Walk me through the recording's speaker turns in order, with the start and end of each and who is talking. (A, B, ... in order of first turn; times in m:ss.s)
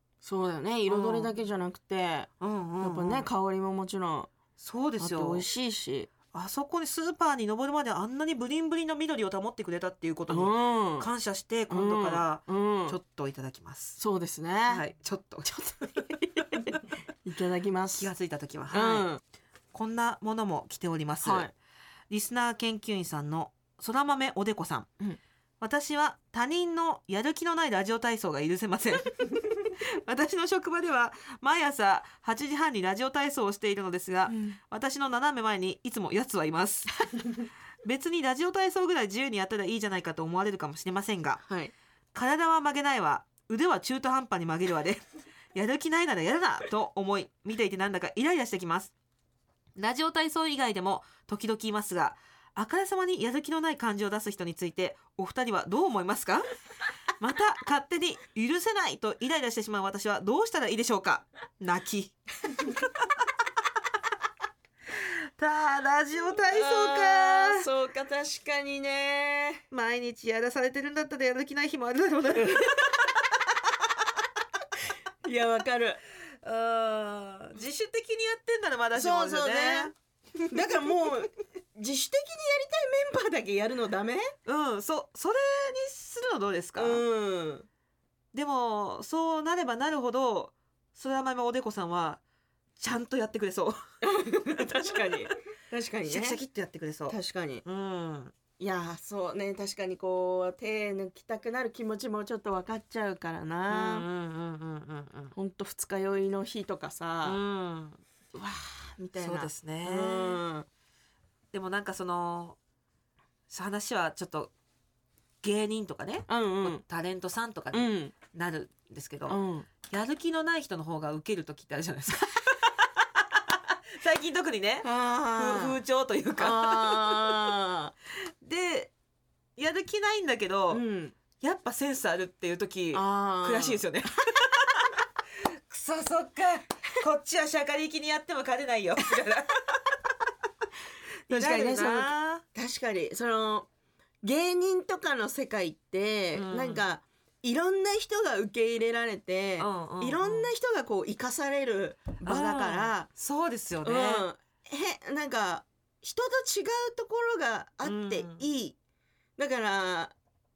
0:00.2-0:02.3 A
0:00.9-0:01.3 B
0:02.4-0:03.3 B
0:02.8-0:04.3 A
0:04.6-0:05.4 B
0:05.0-0:06.1 A
0:06.3-0:14.0 B
0:10.3-0:11.1 A
0:11.7-0:13.0 A
0:14.0-0:14.8 A
0:14.7-0:15.5 B
0:15.4-0:18.1 A
0:18.0-0:19.1 B
0:18.7-0:19.2 A
0:19.7-0:21.5 B
0:21.2-0:21.5 A
0:22.1-0:24.9 B
0:25.6-0:36.9 B
0:34.3-0:34.6 A
0:37.8-0:41.4 B
0:41.4-0:41.7 A
0:42.1-0:45.0 B
0:45.5-0:48.9 B
0:49.8-0:56.4 B
0:57.2-1:02.2 B
1:04.9-1:07.7 B
1:06.5-1:09.6 A
1:09.7-1:13.1 B
1:12.5-1:12.8 A
1:15.2-1:16.0 A
1:16.4-1:19.9 B
1:18.9-1:19.9 A
1:20.5-1:24.3 A
1:20.5-1:20.9 B
1:24.4-1:27.0 B
1:26.8-1:27.7 A
1:28.3-1:32.2 B
1:32.8-1:33.8 B
1:34.0-1:36.4 A
1:36.1-1:38.3 B
1:37.1-1:37.6 A
1:38.6-1:44.0 A
1:43.7-1:45.3 B
1:45.3-1:47.4 A
1:47.2-1:48.0 B
1:48.3-1:50.7 A
1:49.2-1:50.4 B
1:51.5-1:52.6 B
1:53.5-1:54.5 B
1:55.4-2:07.2 B
1:56.3-1:56.8 A
1:57.7-1:58.1 A
1:59.3-1:59.7 A
2:04.8-2:05.8 A
2:06.4-2:07.9 A
2:08.4-2:08.9 B
2:09.6-2:10.8 B
2:10.7-2:11.1 A
2:11.4-2:19.8 B
2:12.9-2:13.8 A
2:21.3-2:22.4 B
2:21.3-2:23.7 A
2:24.2-2:33.1 A
2:26.3-2:26.8 B
2:29.6-2:30.5 B
2:32.2-2:34.2 B
2:33.8-2:38.8 A
2:37.8-2:38.4 B
2:39.4-2:40.1 A